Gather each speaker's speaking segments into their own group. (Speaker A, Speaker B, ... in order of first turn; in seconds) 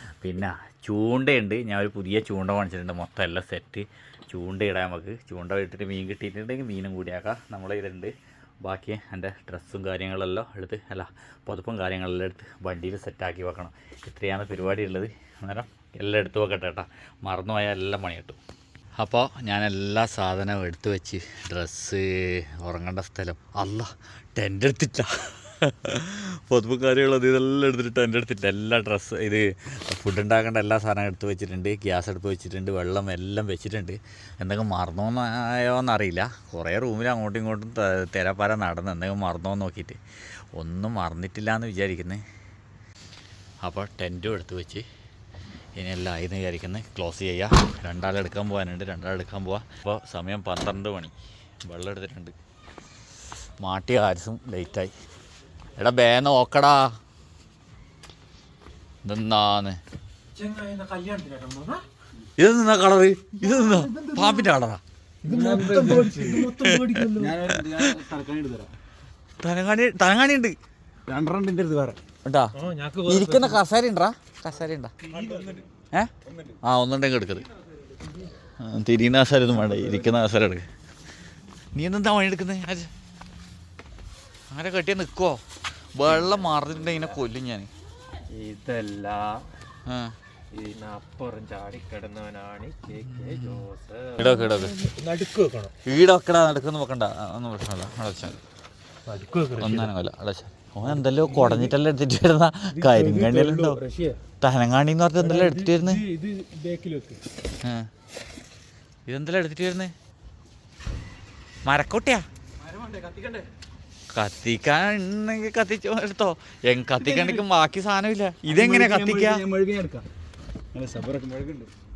Speaker A: 0.2-8.1, 8.6-18.4, 19.0-40.0, 40.5-42.2, 43.6-44.8, 45.8-51.1, 51.7-52.3, 53.6-54.9, 55.8-56.9, 59.0-59.8, 62.4-64.8, 66.5-67.0, 69.4-70.5, 72.2-72.5, 73.0-74.9, 76.6-77.5, 78.6-80.6, 81.7-82.9, 84.5-85.4, 86.0-87.7, 89.9-90.1, 94.2-94.8, 95.8-98.4, 99.6-103.8, 104.4-106.0, 109.1-109.9, 111.7-112.2, 114.1-119.5
Speaker B: 60.3-61.8, 65.2-67.4, 72.5-73.6, 75.1-75.5, 86.8-87.2, 88.3-89.4, 90.5-95.7, 99.1-99.9, 100.8-101.8, 102.7-104.2, 105.2-107.2, 113.0-113.4
Speaker C: 63.4-64.6, 65.2-66.5, 67.1-68.7, 71.1-72.0, 75.1-75.6, 117.0-117.5, 118.5-120.0, 120.7-121.7